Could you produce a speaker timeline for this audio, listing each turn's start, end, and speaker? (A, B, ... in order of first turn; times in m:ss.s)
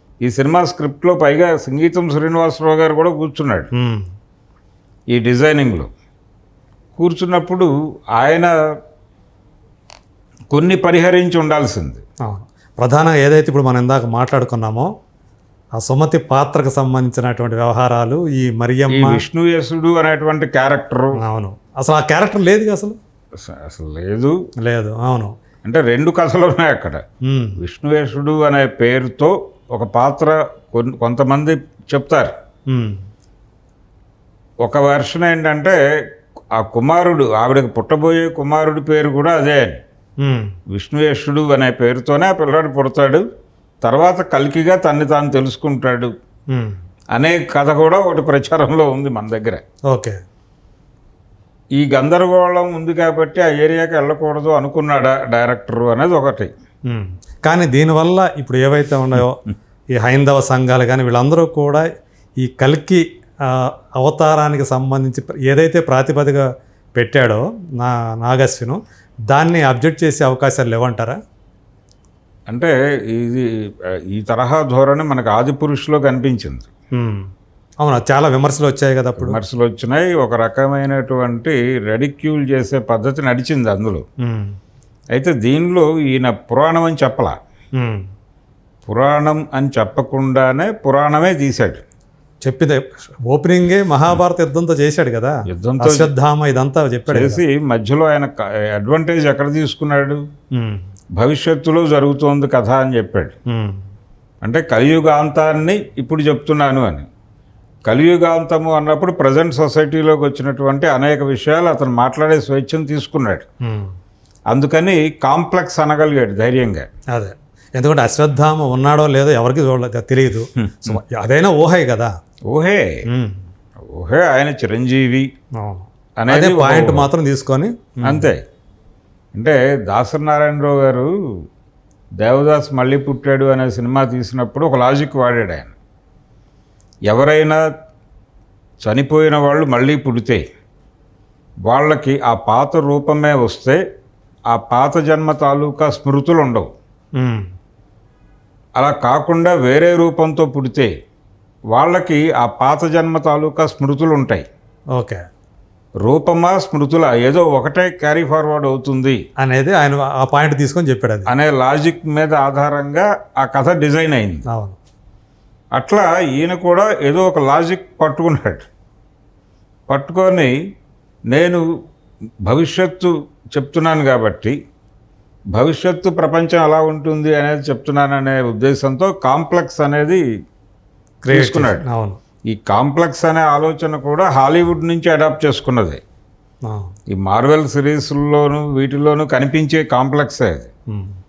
0:00.2-0:03.7 A
0:03.7-0:04.1 B
0:05.1-0:05.9 A
0:07.0-0:08.5 A
0:10.5-0:12.0 A
0:12.2-0:14.9 B
0:15.8-0:19.2 B
0:18.9-0:21.2 A
0:21.2-0:23.0 B
0:23.4-0:24.4 A
0:24.6-0:25.3 B
0:25.6-0:27.0 A
0:27.3-0:27.6 B
0:27.6-0:32.3 A
0:32.7-0:33.0 B
0:34.6-0:35.8 A
0:36.6-0:39.8 A
0:40.2-0:40.5 B
0:40.7-0:43.2 A
0:43.8-0:46.1 A
0:46.5-0:46.8 B
0:47.1-0:49.6 A
0:49.9-0:50.2 B
0:51.8-0:56.5 A
0:56.9-0:59.4 B
1:00.0-1:01.8 B
1:02.4-1:06.4 B
1:07.0-1:08.8 B
1:09.3-1:11.2 B
1:12.5-1:13.5 A
1:14.1-1:16.7 A
1:17.0-1:17.3 B
1:17.8-1:19.4 B
1:19.2-1:24.0 A
1:24.2-1:24.6 B
1:25.1-1:27.4 A
1:27.8-1:28.1 B
1:28.8-1:31.8 A
1:32.4-1:37.4 B
1:35.5-1:36.1 A
1:37.1-1:40.2 A
1:40.6-1:40.8 B
1:41.2-1:43.4 A
1:43.5-1:43.8 B
1:44.4-1:47.1 A
1:47.8-1:53.4 A
1:53.6-1:53.9 B
1:54.5-1:56.9 A
1:57.1-2:02.1 B
2:00.6-2:01.0 A
2:02.5-2:02.9 A
2:03.1-2:03.4 B
2:03.9-2:05.3 A
2:05.6-2:08.3 B
2:06.2-2:07.1 A
2:08.0-2:08.4 A
2:09.3-2:11.1 A
2:12.2-2:15.7 A
2:17.1-2:17.6 A
2:18.8-2:20.4 A
2:21.6-2:23.8 A
2:24.5-2:26.7 A
2:27.2-2:27.5 B
2:28.8-2:30.9 A
2:31.7-2:34.4 A
2:35.0-2:35.2 B
2:36.0-2:39.2 A
2:39.4-2:41.3 B
2:41.3-2:44.4 A
2:44.5-2:44.8 B
2:45.8-2:48.6 A
2:49.9-2:50.5 A
2:51.3-2:51.6 A
2:52.4-2:54.5 A
2:55.5-3:00.2 A
3:01.2-3:02.2 B
3:01.3-3:01.8 A
3:02.5-3:06.0 A
3:07.1-3:10.7 A